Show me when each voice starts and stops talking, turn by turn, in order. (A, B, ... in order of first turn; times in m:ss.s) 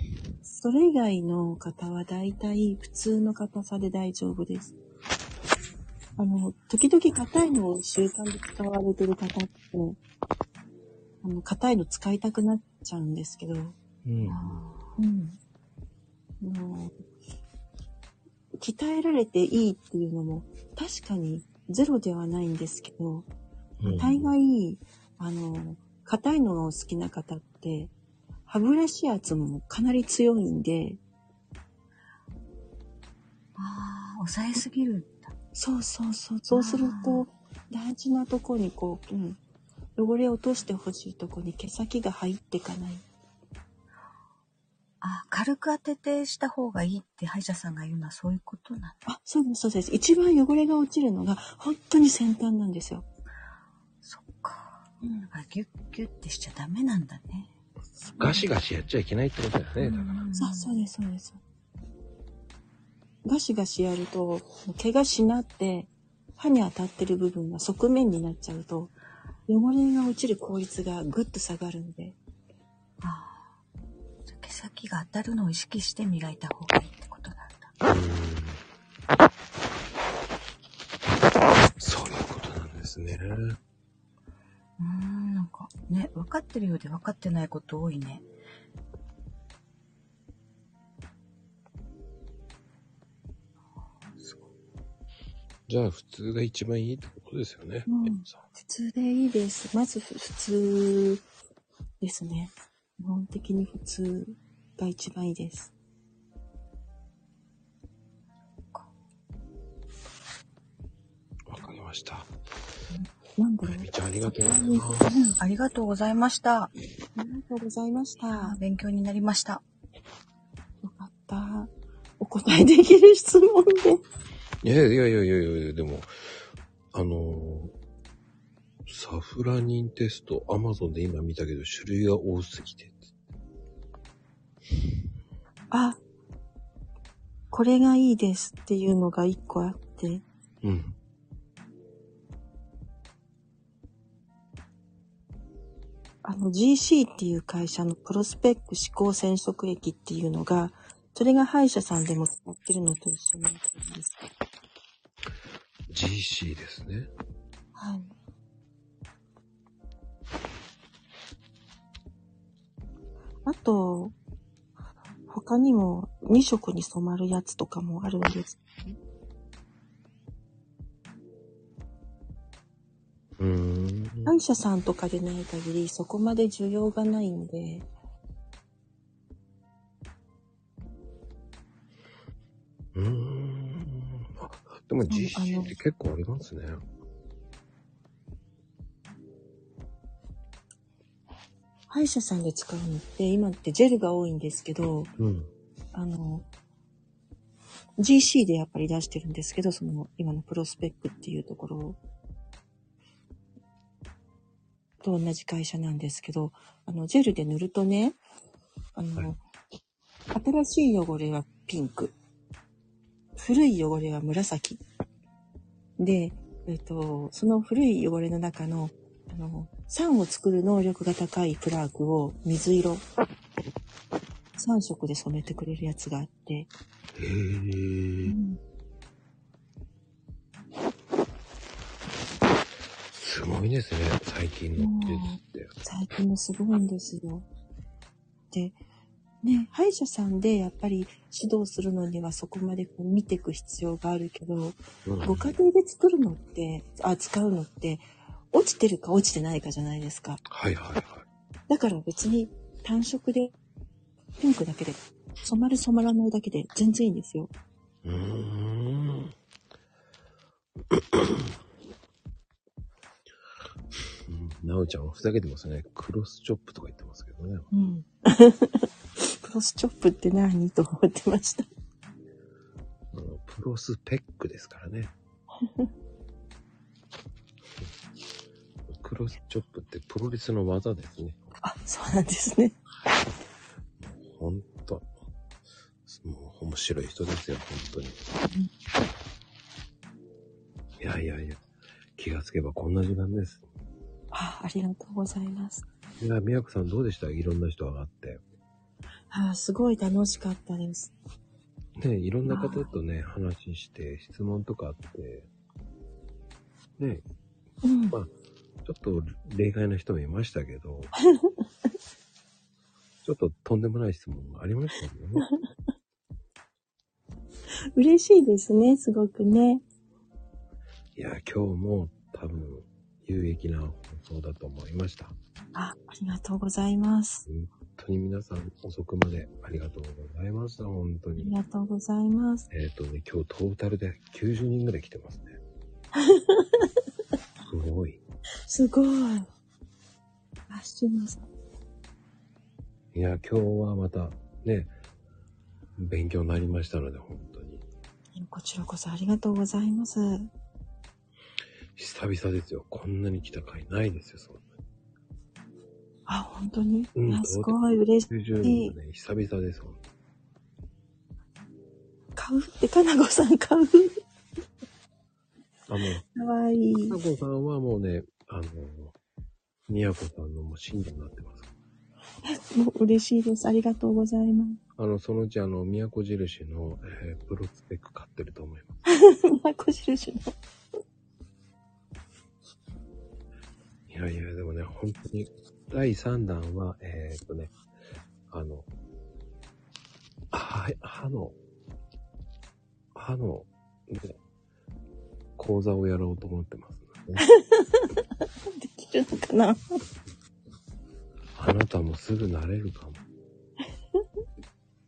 0:00.4-0:04.7 A
0:06.2-0:10.0 A
0:11.2-0:13.8 A
0:14.0-0:14.6 B
0:14.4-0:14.9 C
0:15.0-0:15.4 A
0:16.4-0:16.9 A
0:18.6-0:23.3 A
0:23.8-0:24.3 B
0:23.8-0:27.9 A
0:28.5-0:31.0 A
0:33.7-0:35.3 C
0:35.5-0:39.4 A
0:36.6-0:37.2 C
0:40.0-0:43.0 A
0:45.0-0:49.0 C
0:49.0-0:53.0 A
0:54.0-0:57.5 C
0:58.0-1:00.2 B
1:00.0-1:00.6 C
1:00.4-1:01.4 A
1:03.2-1:08.9 A
1:09.5-1:12.2 A
1:13.0-1:13.5 C
1:14.3-1:17.7 C
1:17.9-1:18.6 B
1:21.8-1:23.6 B
1:24.8-1:28.2 C
1:35.7-1:38.4 B
1:37.8-1:41.2 A
1:42.0-1:45.7 A
1:51.5-1:52.3 B
1:53.4-1:55.1 A
1:53.6-1:55.2 B
1:55.1-1:56.7 C
1:57.2-1:58.6 A
1:58.3-1:59.6 C
2:00.8-2:04.0 A
2:04.6-2:06.1 B
2:06.9-2:07.7 B
2:08.8-2:13.1 B
2:15.7-2:16.0 A
2:17.5-2:20.2 A
2:20.6-2:20.9 B
2:26.2-2:34.2 A
2:35.9-2:37.1 B
2:37.8-2:38.1 A
2:43.4-2:44.1 A
2:45.3-2:49.0 A
2:53.4-2:54.3 B
2:54.2-2:57.9 A
3:02.9-3:06.8 B
3:05.1-3:05.8 A
3:11.9-3:15.1 A
3:15.2-3:15.5 B
3:15.9-3:16.5 A
3:18.0-3:22.0 A
3:25.0-3:28.2 A
3:29.0-3:29.4 A
3:30.3-3:32.1 A
3:33.4-3:34.8 A
3:36.0-3:43.0 A
3:44.6-3:46.7 A
3:47.2-3:48.3 B
3:48.2-3:48.6 A
3:53.1-3:55.7 B
3:54.8-3:57.4 A
3:58.5-3:58.8 A
3:59.4-4:10.4 A
4:05.0-4:05.5 B
4:10.5-4:11.2 B
4:11.7-4:13.5 A
4:14.4-4:17.5 A
4:18.0-4:19.3 B
4:20.9-4:21.5 B
4:24.3-4:27.7 B
4:27.7-4:31.7 A
4:33.1-4:35.1 B
4:35.6-4:35.9 A
4:38.9-4:41.4 B
4:41.6-4:42.8 A
4:44.0-4:45.1 B
4:46.0-4:48.2 B
4:51.0-4:51.6 B
4:52.2-4:53.6 B
4:54.3-4:55.8 A
4:56.2-4:58.4 B
4:59.3-5:01.1 A
5:02.0-5:05.5 B
5:02.4-5:02.9 A
5:07.0-5:07.2 B
5:07.8-5:08.2 A
5:08.8-5:11.1 B
5:11.2-5:11.6 A
5:13.2-5:15.4 B
5:18.0-5:19.8 A
5:21.1-5:25.4 B
5:25.7-5:27.4 A
5:27.4-5:31.5 B
5:31.4-5:32.7 A
5:32.7-5:35.5 B
5:36.2-5:36.8 A
5:37.6-5:38.2 B
5:38.7-5:39.5 A
5:40.7-5:41.5 A
5:43.1-5:44.9 B
5:46.0-5:47.8 B
5:48.3-5:50.5 A
5:52.0-5:54.7 B
5:56.3-5:58.9 A
5:57.1-6:00.0 B
6:02.4-6:04.2 A
6:05.9-6:06.2 B
6:06.3-6:07.2 A
6:07.0-6:09.1 B
6:09.9-6:11.7 B
6:12.4-6:14.8 A
6:15.0-6:18.9 B
6:19.1-6:20.5 A
6:24.1-6:27.7 B
6:28.5-6:28.9 B
6:30.5-6:31.6 B
6:33.1-6:34.4 B
6:35.6-6:37.4 B
6:37.4-6:38.2 A
6:38.7-6:40.0 A
6:41.5-6:43.2 B